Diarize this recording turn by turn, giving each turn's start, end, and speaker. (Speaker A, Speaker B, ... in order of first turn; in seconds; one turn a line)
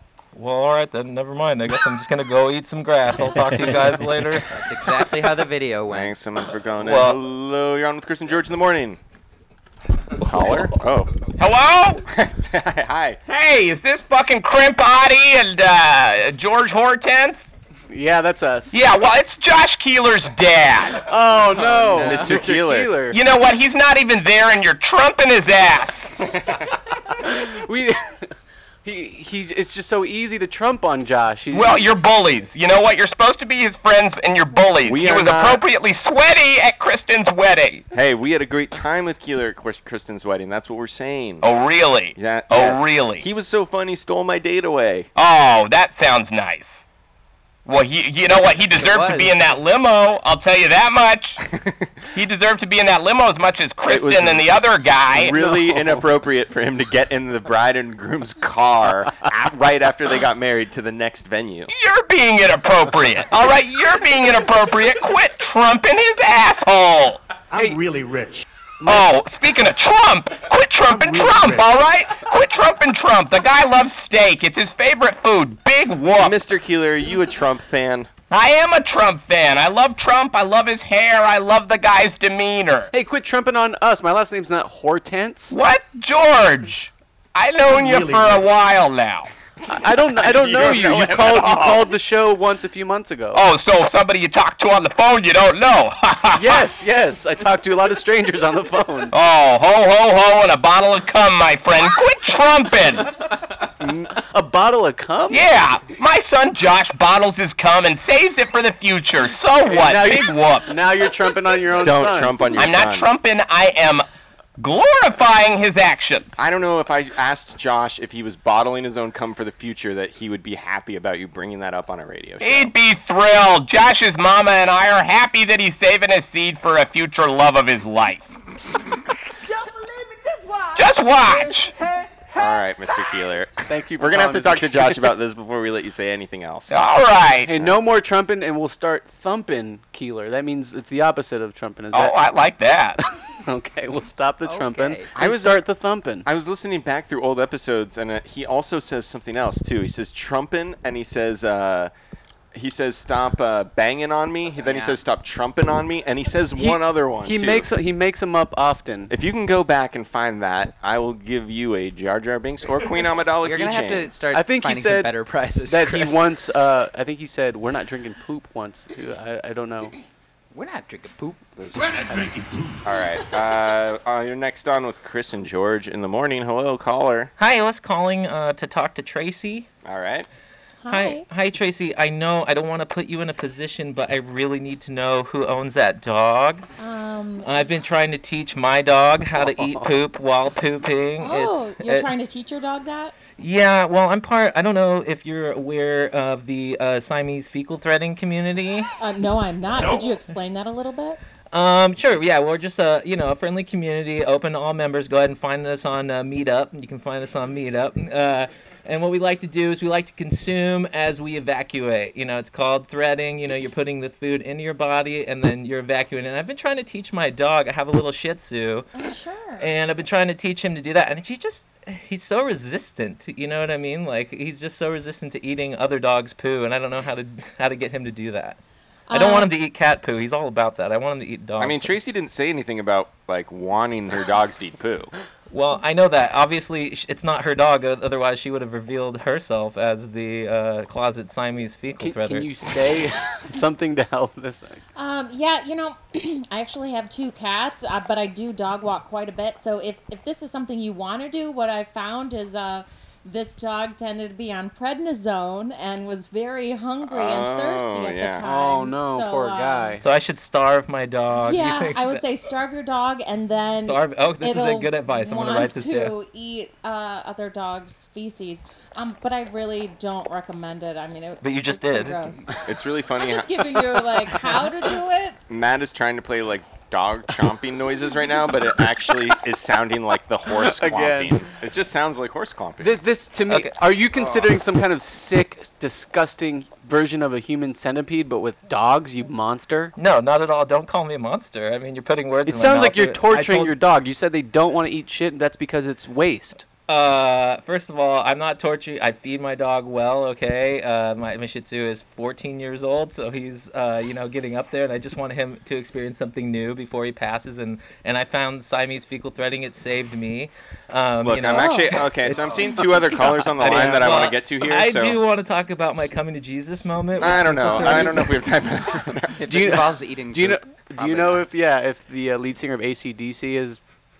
Speaker A: 0.3-4.5
Speaker B: 3.2-4.4
Speaker C: 4.5-6.1
Speaker D: 5.9-9.0
Speaker A: 6.8-7.2
Speaker D: 10.2-11.2
Speaker E: 11.4-12.0
Speaker D: 12.1-13.2
Speaker E: 13.2-17.5
Speaker B: 17.9-18.8
Speaker E: 18.7-21.0
Speaker B: 21.0-23.2
Speaker C: 21.5-22.4
Speaker D: 22.0-22.9
Speaker E: 23.1-26.1
Speaker B: 27.2-28.3
Speaker B: 28.8-31.9
Speaker E: 31.5-37.9
Speaker D: 34.8-35.6
Speaker D: 37.9-41.5
Speaker E: 41.4-43.2
Speaker D: 42.1-45.1
Speaker E: 45.1-46.8
Speaker E: 47.6-51.4
Speaker C: 48.7-49.4
Speaker E: 52.1-55.3
Speaker B: 53.9-54.5
Speaker D: 55.1-61.7
Speaker B: 55.2-56.0
Speaker E: 61.7-67.2
Speaker F: 67.5-68.5
Speaker B: 67.5-67.8
Speaker B: 68.8-69.1
Speaker E: 68.8-76.3
Speaker F: 70.8-71.7
Speaker D: 76.2-78.1
Speaker E: 78.3-82.9
Speaker B: 82.9-85.6
Speaker E: 85.5-89.3
Speaker F: 87.7-88.5
Speaker B: 89.7-93.4
Speaker D: 89.7-91.8
Speaker E: 93.3-96.7
Speaker B: 96.3-99.1
Speaker E: 99.1-103.1
Speaker B: 103.8-105.4
Speaker E: 105.3-110.7
Speaker B: 109.7-112.6
Speaker D: 111.7-113.1
Speaker E: 112.6-114.0
Speaker E: 114.6-116.4
Speaker D: 116.4-122.7
Speaker E: 122.4-128.3
Speaker E: 130.7-131.7
Speaker D: 132.3-136.7
Speaker B: 133.7-135.0
Speaker E: 136.7-137.5
Speaker B: 137.4-142.1
Speaker E: 141.9-143.0
Speaker B: 143.4-146.2
Speaker C: 144.4-145.1
Speaker D: 145.1-145.6
Speaker D: 146.2-151.9
Speaker D: 152.5-157.7
Speaker C: 154.6-155.0
Speaker B: 156.6-159.1
Speaker D: 159.1-164.1
Speaker C: 163.4-166.2
Speaker B: 164.3-165.1
Speaker B: 165.7-169.9
Speaker C: 170.5-171.4
Speaker D: 171.6-172.2
Speaker B: 172.1-172.3
Speaker D: 172.8-177.3
Speaker A: 177.4-179.7
Speaker D: 179.8-180.3
Speaker G: 180.8-181.2
Speaker A: 180.9-186.7
Speaker G: 186.8-187.7
Speaker A: 187.4-192.1
Speaker B: 189.4-189.9
Speaker G: 191.2-193.2
Speaker A: 193.3-198.9
Speaker G: 199.0-201.2
Speaker A: 201.5-218.9
Speaker G: 218.9-219.7
Speaker A: 219.6-228.6
Speaker G: 229.1-229.5
Speaker A: 229.1-232.0
Speaker D: 231.6-235.1
Speaker A: 235.5-242.5
Speaker B: 242.0-244.8
Speaker G: 244.9-260.0
Speaker D: 257.1-258.4
Speaker B: 258.4-260.0
Speaker A: 260.0-262.2
Speaker G: 261.3-272.6
Speaker A: 263.8-266.1
Speaker A: 271.4-272.2
Speaker D: 272.6-274.5
Speaker G: 273.1-275.4
Speaker D: 275.5-283.0
Speaker B: 280.5-281.4
Speaker B: 282.8-289.9
Speaker A: 283.5-283.8
Speaker A: 289.9-293.8
Speaker B: 292.4-296.6
Speaker A: 296.9-312.8
Speaker D: 311.2-315.2
Speaker G: 311.6-311.9
Speaker A: 313.6-318.2
Speaker G: 317.1-318.3
Speaker D: 317.2-319.4
Speaker C: 319.4-321.5
Speaker B: 319.5-323.8